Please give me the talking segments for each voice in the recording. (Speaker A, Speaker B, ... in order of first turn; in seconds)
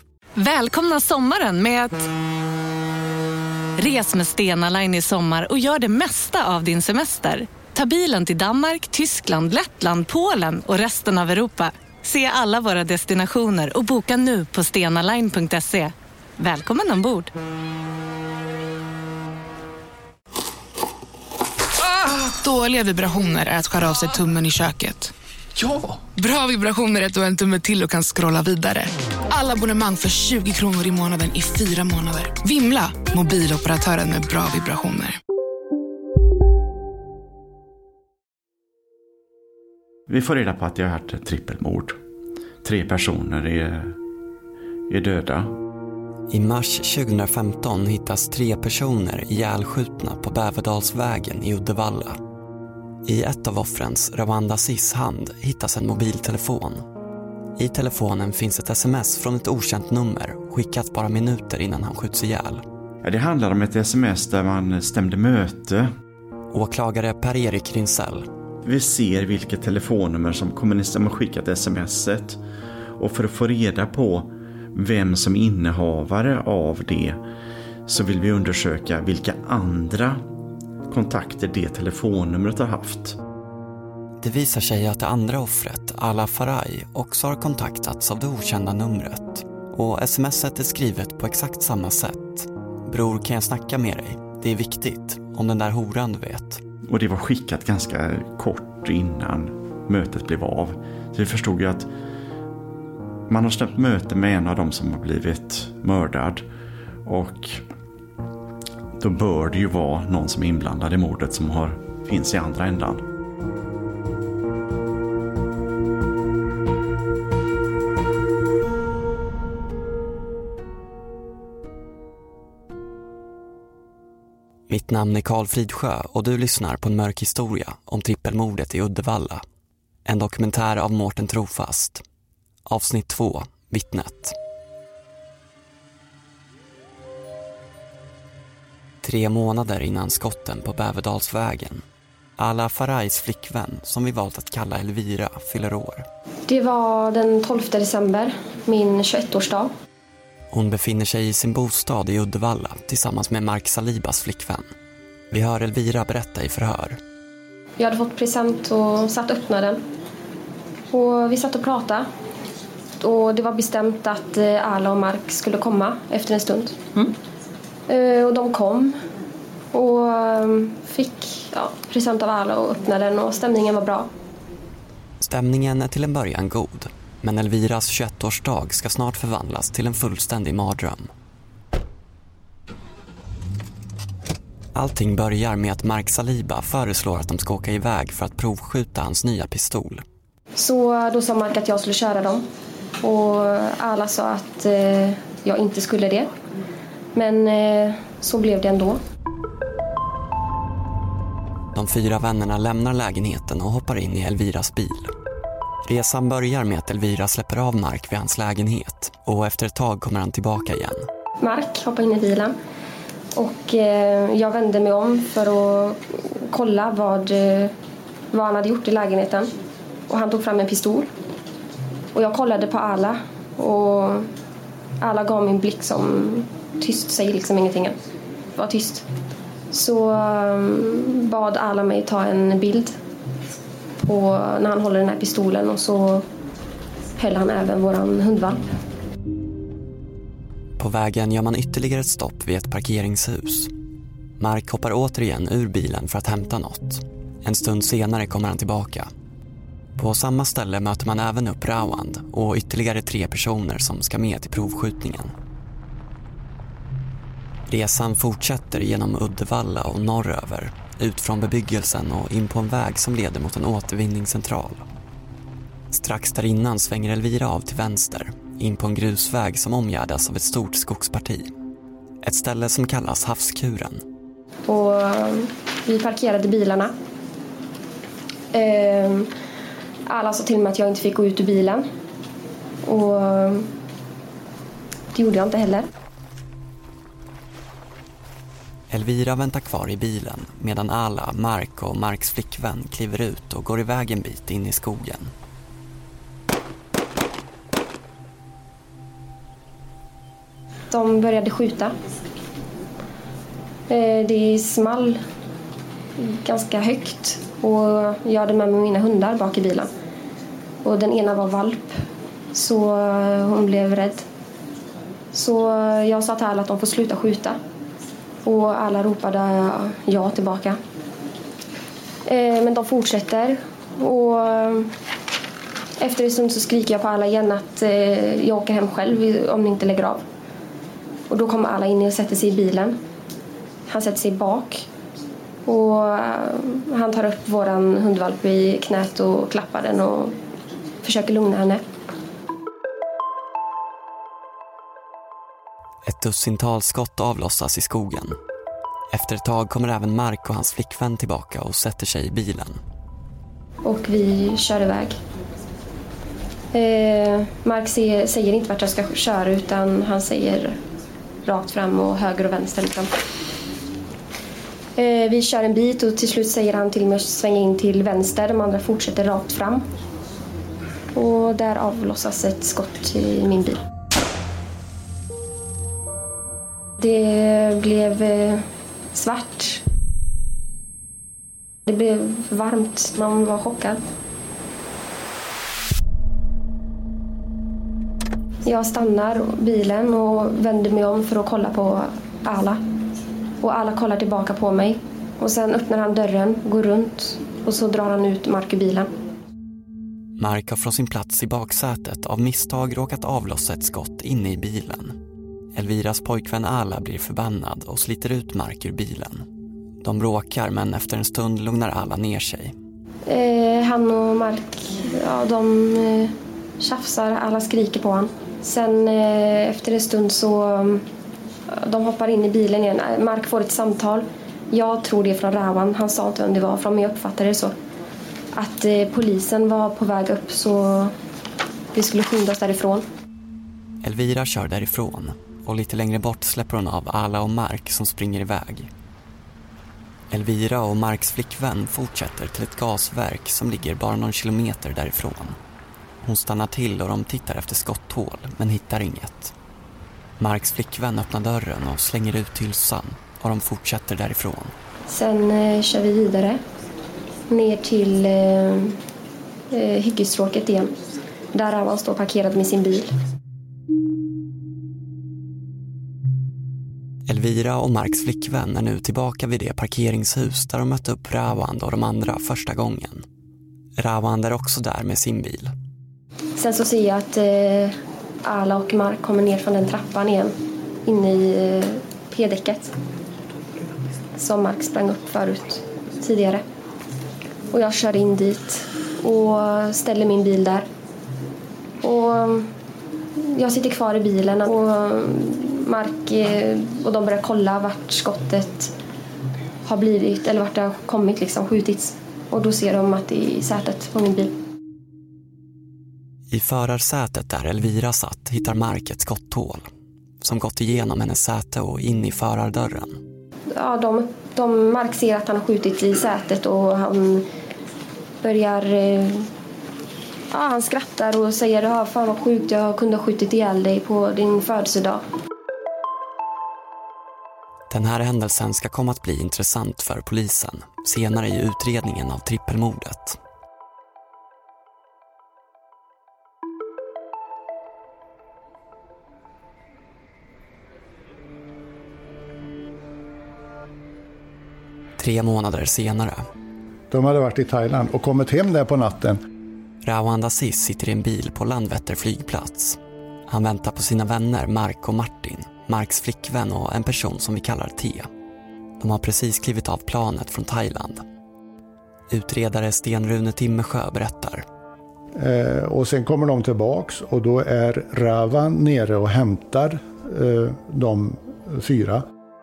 Speaker A: 0.3-2.1, 3.8-17.3
Speaker B: 21.8-25.1, 25.7-35.2
Speaker C: 40.1-42.0, 42.6-44.0, 44.9-45.5, 63.0-65.9, 68.6-72.4, 73.0-77.2, 77.9-80.2, 80.9-83.2, 96.8-101.9, 103.3-106.4, 107.0-107.6, 109.0-113.0
Speaker D: 46.3-52.2, 53.0-56.8, 57.6-62.6, 66.5-68.3, 84.2-96.6, 124.7-129.4, 130.1-132.0, 132.7-134.3, 139.0-141.8, 142.4-146.1, 150.5-154.7, 155.3-157.0, 175.2-181.1, 184.7-190.0, 201.7-205.1, 205.8-211.1, 240.8-243.7, 244.4-249.1, 250.0-255.3, 257.7-264.8, 265.9-271.5, 272.2-274.0, 288.9-295.3, 346.0-348.4, 349.1-352.8, 400.4-405.1, 405.7-409.5, 410.0-412.7, 434.0-438.9, 440.3-445.6, 446.2-449.5, 450.4-454.7, 467.3-473.2, 474.0-475.7, 506.5-509.8, 510.4-513.2, 527.9-533.4, 545.2-546.5, 550.0-558.3, 559.0-561.2, 562.3-564.6
Speaker E: 146.5-149.7, 157.8-159.8, 160.9-162.1, 163.0-166.8, 167.9-168.9, 169.7-174.1, 190.6-192.4, 193.0-196.3, 197.1-199.0, 211.4-212.5, 213.3-217.7, 218.3-219.5, 220.1-221.1, 222.1-224.3, 225.0-227.9, 228.5-229.1, 229.7-232.9, 234.0-236.2, 237.2-238.6, 274.7-276.9, 278.5-279.3, 280.1-281.8, 282.8-283.7, 285.1-285.9, 300.9-301.9, 303.9-305.2, 306.2-309.9, 310.8-311.9, 312.5-314.2, 315.3-317.6, 318.4-320.8, 322.2-324.9, 326.0-330.2, 331.3-333.0, 333.9-334.9, 335.6-340.3, 341.0-341.8, 353.8-355.2, 356.7-360.8, 361.4-363.1, 365.0-369.8, 371.1-373.8, 377.0-378.6, 379.1-379.8, 381.9-384.0, 388.6-392.8, 393.6-399.1, 413.3-421.0, 421.7-427.7, 428.5-431.1, 431.9-433.0, 455.1-456.6, 457.5-458.9, 459.7-460.9, 461.5-463.1, 476.6-480.5, 481.0-482.9, 484.4-486.6, 487.7-490.9, 492.0-492.7, 493.4-498.9, 499.9-504.5, 513.7-517.5, 518.4-519.5, 520.5-525.2
Speaker F: 547.1-549.4, 565.3-572.2